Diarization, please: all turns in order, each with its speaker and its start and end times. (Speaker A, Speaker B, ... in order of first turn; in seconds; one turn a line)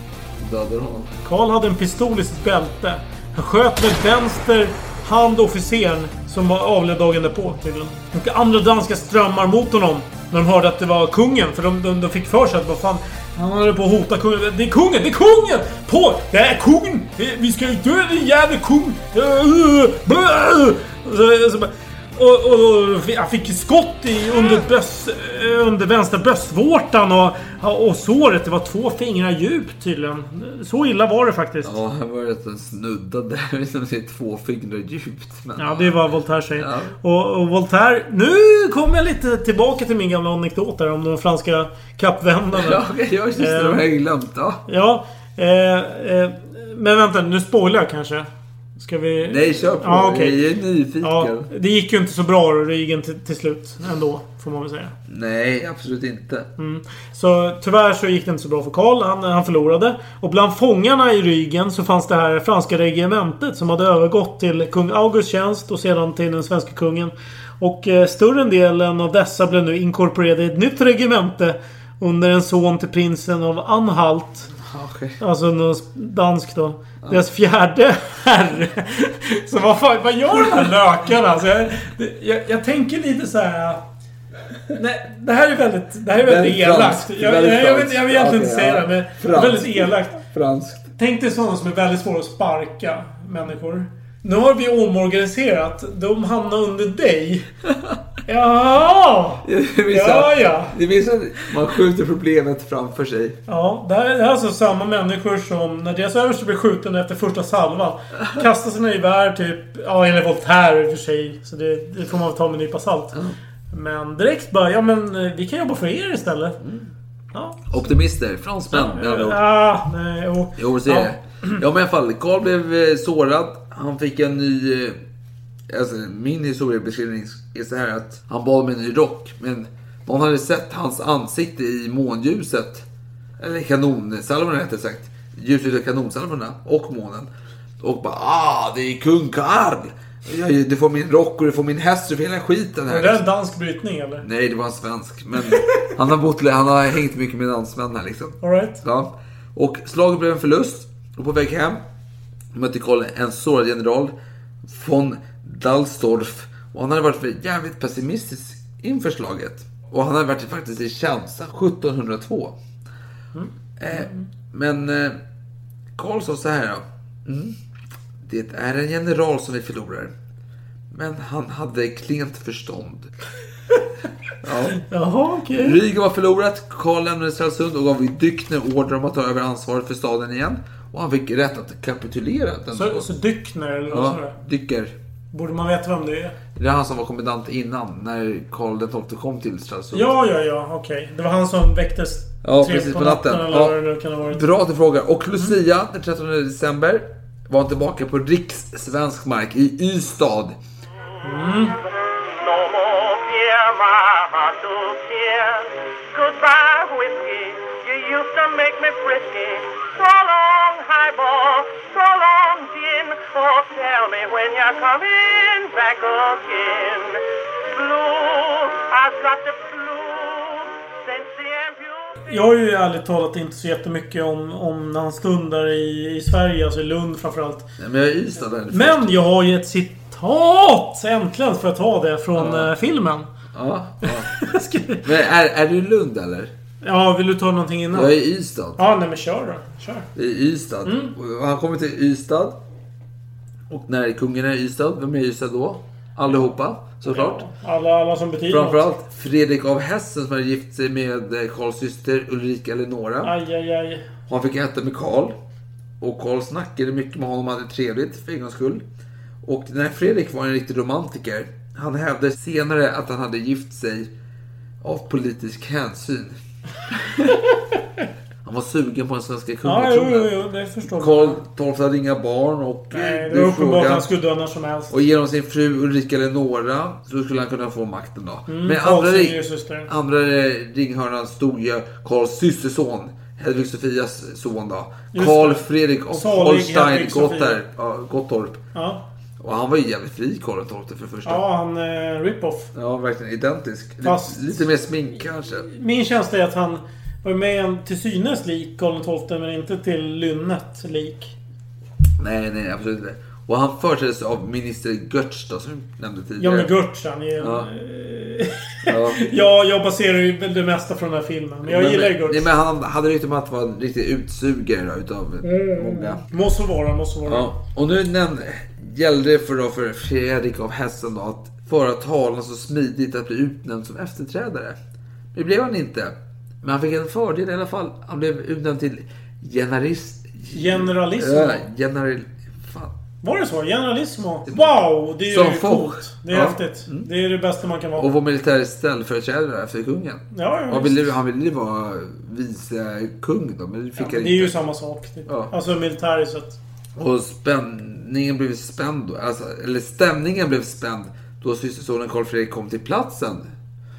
Speaker A: 0.4-1.1
Speaker B: 1.2-31.7
Speaker A: 31.6-37.0
Speaker B: 35.6-42.8
Speaker A: 42.5-44.6
Speaker B: 43.4-43.8
Speaker B: 44.7-50.4
Speaker A: 49.2-51.5
Speaker B: 51.0-54.9
Speaker A: 55.1-56.5
Speaker B: 56.6-74.5
Speaker A: 74.5-75.2
Speaker B: 75.2-83.8
Speaker A: 80.3-81.0
Speaker B: 84.7-90.2
Speaker A: 86.1-90.9
Speaker B: 91.0-97.5
Speaker A: 97.7-98.0
Speaker B: 98.2-100.8
Speaker A: 99.4-103.4
Speaker B: 103.5-113.2
Speaker B: 113.7-116.6
Speaker A: 116.6-116.9
Speaker B: 117.3-117.7
Speaker A: 117.7-119.4
Speaker B: 118.7-121.6
Speaker A: 120.6-125.0
Speaker A: 125.7-132.8
Speaker A: 133.4-143.2
Speaker B: 142.9-144.2
Speaker A: 144.2-151.8
Speaker B: 148.4-148.8
Speaker A: 152.5-162.6
Speaker B: 163.3-164.3
Speaker A: 163.8-165.2
Speaker A: 165.9-167.6
Speaker A: 168.2-170.1
Speaker A: 170.9-173.1
Speaker A: 174.4-174.8
Speaker B: 174.8-175.8
Speaker A: 175.5-183.1
Speaker B: 182.7-184.3
Speaker A: 183.9-184.9
Speaker B: 185.3-186.3
Speaker A: 186.5-190.2
Speaker B: 189.9-194.4
Speaker A: 192.4-200.6
Speaker B: 201.2-201.8
Speaker C: 202.1-222.2
Speaker B: 222.3-227.7
Speaker A: 227.8-229.1
Speaker B: 228.7-233.2
Speaker A: 232.3-232.7
Speaker A: 233.5-234.4
Speaker B: 234.0-235.0
Speaker A: 235.0-236.5
Speaker B: 236.8-238.1
Speaker A: 237.9-238.8
Speaker B: 238.8-240.1
Speaker A: 240.1-242.6
Speaker B: 240.8-241.1
Speaker A: 243.7-247.4
Speaker B: 247.1-248.8
Speaker A: 248.5-253.3
Speaker B: 253.2-254.1
Speaker A: 254.3-255.3
Speaker A: 256.0-258.8
Speaker A: 259.4-264.1
Speaker A: 264.8-266.4
Speaker A: 266.9-267.4
Speaker A: 268.4-274.1
Speaker B: 269.6-271.4
Speaker B: 272.9-274.9
Speaker A: 274.9-288.6
Speaker B: 278.5-279.9
Speaker B: 285.1-287.6
Speaker B: 288.7-289.0
Speaker A: 289.4-291.4
Speaker B: 291.2-292.7
Speaker A: 292.7-295.7
Speaker B: 294.0-294.6
Speaker B: 295.6-301.3
Speaker A: 302.2-306.7
Speaker B: 306.4-312.5
Speaker A: 307.4-307.7
Speaker A: 308.9-309.2
Speaker A: 311.6-316.2
Speaker B: 315.4-317.5
Speaker A: 317.2-324.8
Speaker A: 325.3-332.9
Speaker B: 330.5-331.6
Speaker B: 333.2-338.1
Speaker A: 335.2-337.1
Speaker A: 337.9-344.6
Speaker B: 340.3-341.1
Speaker B: 344.0-346.6
Speaker A: 345.2-345.5
Speaker A: 346.9-353.5